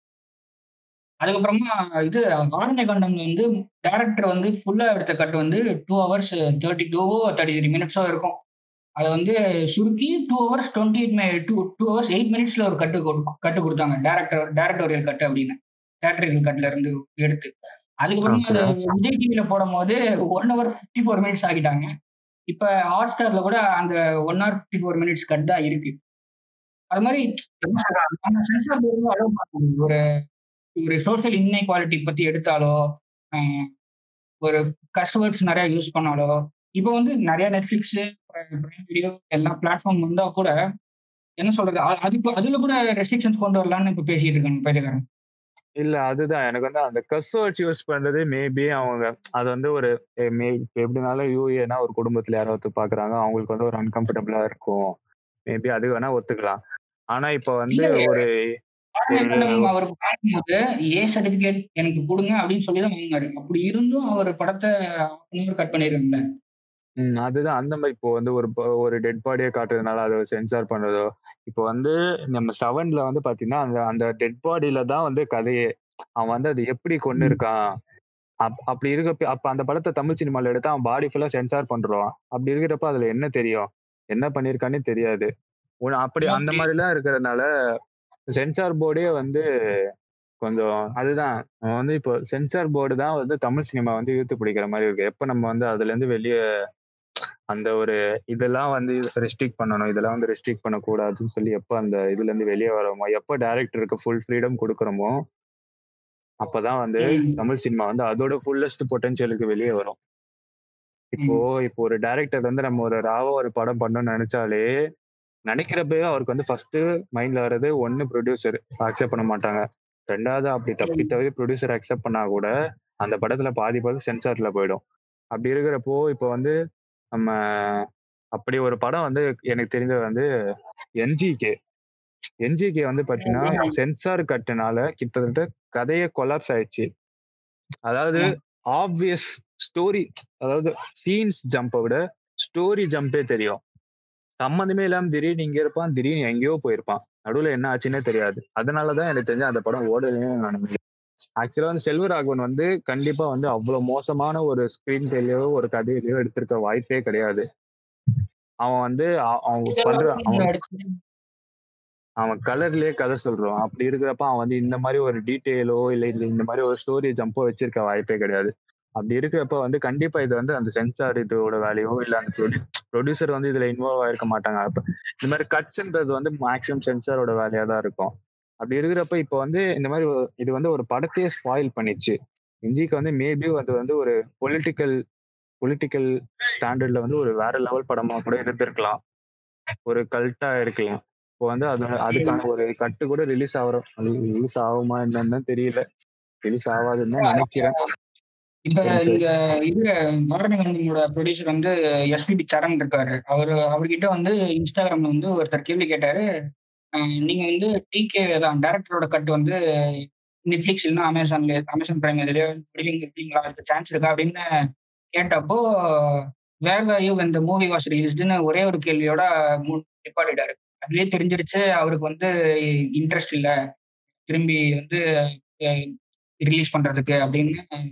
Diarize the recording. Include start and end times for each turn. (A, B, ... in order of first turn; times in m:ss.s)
0:01.2-0:08.4 A
0:09.0-0:17.5 A
0:18.0-0:21.9 A
0:18.2-0:18.9 B
0:22.5-0:26.0 A
0:26.9-0:30.0 A
0:30.8-0:32.8 A
0:33.4-0:33.7 A
0:34.4-0:40.5 A
0:41.4-0:45.0 A
0:45.8-0:54.8 B
0:55.5-0:56.6 B
0:57.1-0:58.3 B
0:57.7-0:58.2 A
0:59.0-1:06.2 A
0:59.1-0:59.7 B
1:07.0-1:15.6 B
1:16.2-1:17.6 B
1:18.4-1:25.3 B
1:25.9-1:27.5 B
1:26.2-1:26.7 A
1:28.4-1:29.4 B
1:30.4-1:36.4 B
1:37.5-1:45.1 B
1:46.4-1:50.0 B
1:51.1-1:54.7 B
1:55.5-2:02.5 B
2:00.8-2:01.1 A
2:03.0-2:04.8 B
2:05.4-2:06.5 B
2:07.2-2:07.8 B
2:08.4-2:10.3 B
2:11.0-2:11.5 B
2:12.5-2:16.9 B
2:13.2-2:13.8 A
2:17.9-2:23.6 B
2:24.4-2:30.8 B
2:31.4-2:37.4 B
2:38.6-2:40.5 B
2:39.8-2:40.9 A
2:42.2-2:54.7 B
2:55.2-2:58.1 B
2:58.6-3:02.2 B
3:02.7-3:05.0 B
3:05.6-3:09.0 B
3:09.9-3:15.8 B
3:12.1-3:12.4 A
3:16.5-3:17.8 B
3:17.2-3:17.7 A
3:18.7-3:26.2 A
3:18.9-3:19.2 B
3:27.0-3:29.6 A
3:30.5-3:34.4 A
3:35.2-3:42.3 A
3:43.0-3:43.5 A
3:44.3-3:45.0 A
3:46.4-3:47.6 A